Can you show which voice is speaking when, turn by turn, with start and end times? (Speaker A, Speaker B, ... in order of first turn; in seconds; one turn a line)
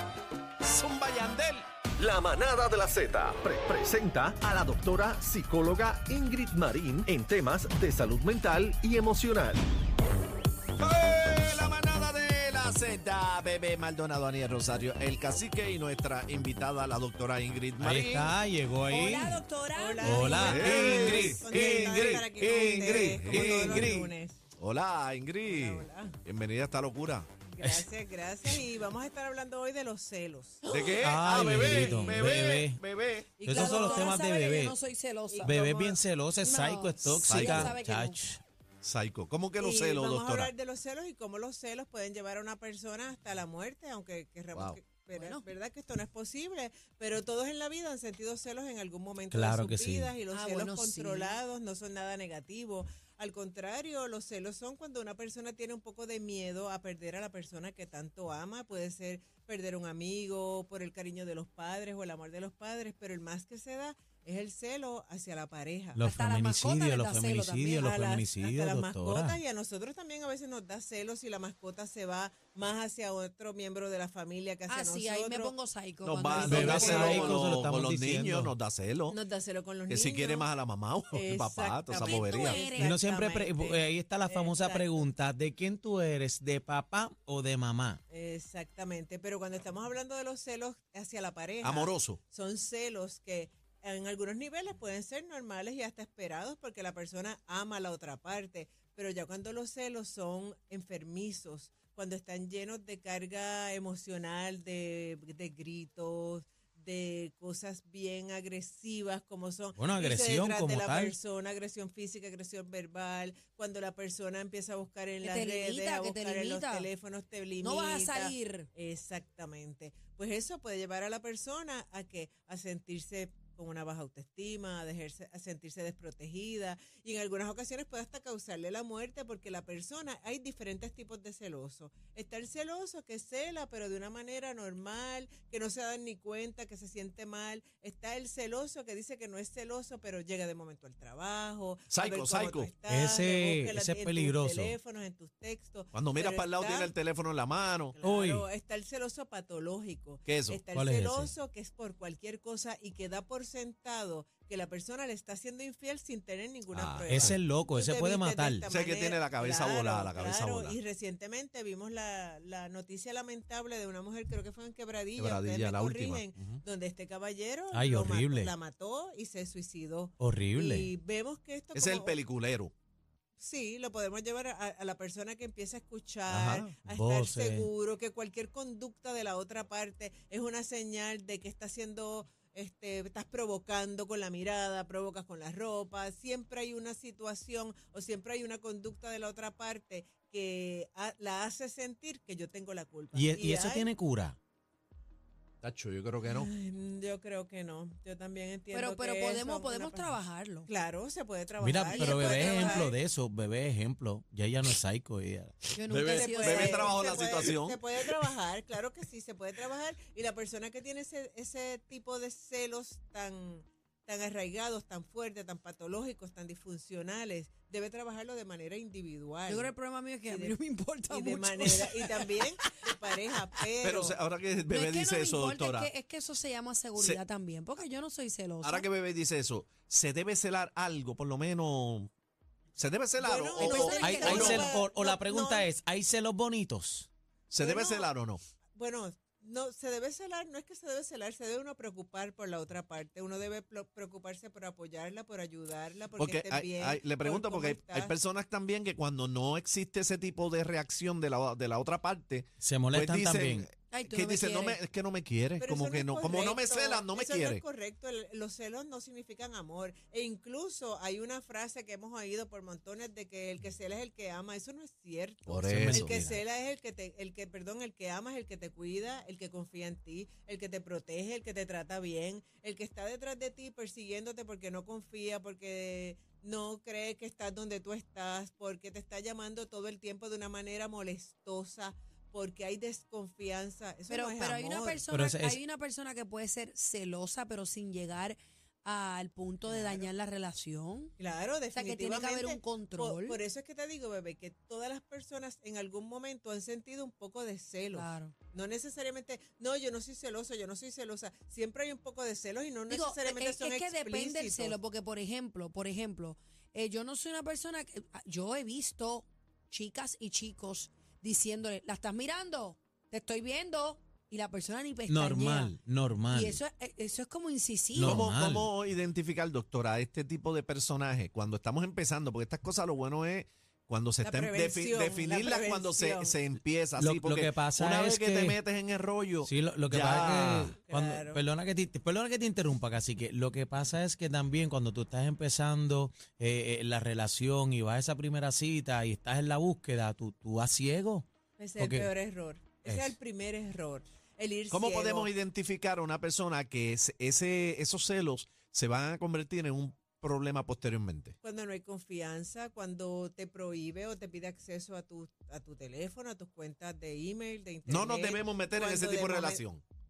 Speaker A: 0.6-1.6
Speaker B: 2.0-9.6
Speaker A: 10.8-18.3
Speaker C: 17.8-19.4
Speaker D: 18.9-21.1
Speaker E: 19.8-24.4
Speaker C: 20.0-24.1
Speaker A: 20.4-24.0
Speaker A: 24.6-27.3
Speaker E: 25.4-26.1
Speaker E: 27.5-30.6
Speaker C: 27.6-27.9
Speaker D: 30.6-31.0
Speaker A: 30.6-33.3
Speaker C: 31.0-32.8
Speaker E: 31.5-32.2
Speaker E: 33.4-34.3
Speaker C: 33.4-34.8
Speaker D: 33.5-35.5
Speaker E: 35.3-36.0
Speaker C: 35.4-38.4
Speaker D: 36.4-38.2
Speaker A: 37.2-37.8
Speaker A: 38.8-40.5
Speaker E: 39.6-66.0
Speaker A: 44.5-44.8
Speaker D: 45.1-45.4
Speaker C: 49.3-50.1
Speaker D: 50.3-51.4
Speaker C: 65.9-69.4
Speaker D: 66.0-67.9
Speaker E: 67.7-75.5
Speaker D: 74.7-77.4
Speaker A: 76.0-79.2
Speaker C: 76.4-78.5
Speaker E: 76.4-77.2
Speaker E: 79.1-80.5
Speaker A: 79.9-82.6
Speaker E: 81.1-84.9
Speaker D: 81.9-83.0
Speaker C: 82.8-88.0
Speaker E: 88.1-146.9
Speaker A: 91.6-92.2
Speaker C: 109.8-111.2
Speaker D: 115.2-116.9
Speaker D: 117.6-118.7
Speaker A: 141.9-142.7
Speaker C: 142.9-144.8
Speaker A: 145.9-147.9
Speaker E: 147.9-172.2
Speaker C: 148.0-148.4
Speaker A: 150.2-150.6
Speaker C: 150.7-151.3
Speaker A: 156.7-157.4
Speaker C: 157.1-158.7
Speaker A: 158.7-160.8
Speaker A: 165.2-166.2
Speaker C: 167.7-168.5
Speaker C: 170.2-170.9
Speaker A: 171.7-172.7
Speaker E: 173.4-193.9
Speaker A: 176.3-176.8
Speaker C: 176.9-177.7
Speaker C: 193.1-194.4
Speaker A: 195.6-196.5
Speaker E: 196.2-202.9
Speaker D: 198.7-200.7
Speaker C: 201.6-205.6
Speaker D: 201.9-202.9
Speaker D: 205.7-207.0
Speaker A: 205.9-207.8
Speaker E: 206.1-219.7
Speaker D: 219.5-222.8
Speaker E: 220.3-220.6
Speaker E: 221.1-224.2
Speaker A: 223.8-225.9
Speaker D: 224.7-228.8
Speaker A: 228.6-232.1
Speaker A: 232.8-234.7
Speaker E: 233.2-235.7
Speaker D: 233.6-234.7
Speaker C: 233.9-237.1
Speaker A: 237.5-238.4
Speaker E: 237.6-238.1
Speaker E: 238.8-248.1
Speaker A: 246.1-257.6
Speaker C: 252.6-253.7
Speaker D: 253.9-254.8
Speaker E: 255.6-285.0
Speaker C: 265.4-266.4
Speaker A: 265.6-266.1
Speaker D: 284.1-291.1
Speaker C: 285.1-285.6
Speaker E: 289.6-290.1
Speaker E: 291.2-304.8
Speaker D: 291.7-293.4
Speaker D: 297.9-298.3
Speaker D: 302.9-315.7
Speaker C: 315.1-316.6
Speaker D: 316.3-318.2
Speaker C: 317.9-318.7
Speaker A: 318.0-330.7
Speaker E: 324.2-326.4
Speaker C: 327.0-328.6
Speaker C: 329.4-341.2
Speaker E: 330.0-331.4
Speaker E: 341.6-345.3
Speaker C: 341.8-342.1
Speaker C: 342.8-343.1
Speaker A: 344.7-351.3
Speaker E: 351.4-359.6
Speaker A: 357.9-359.8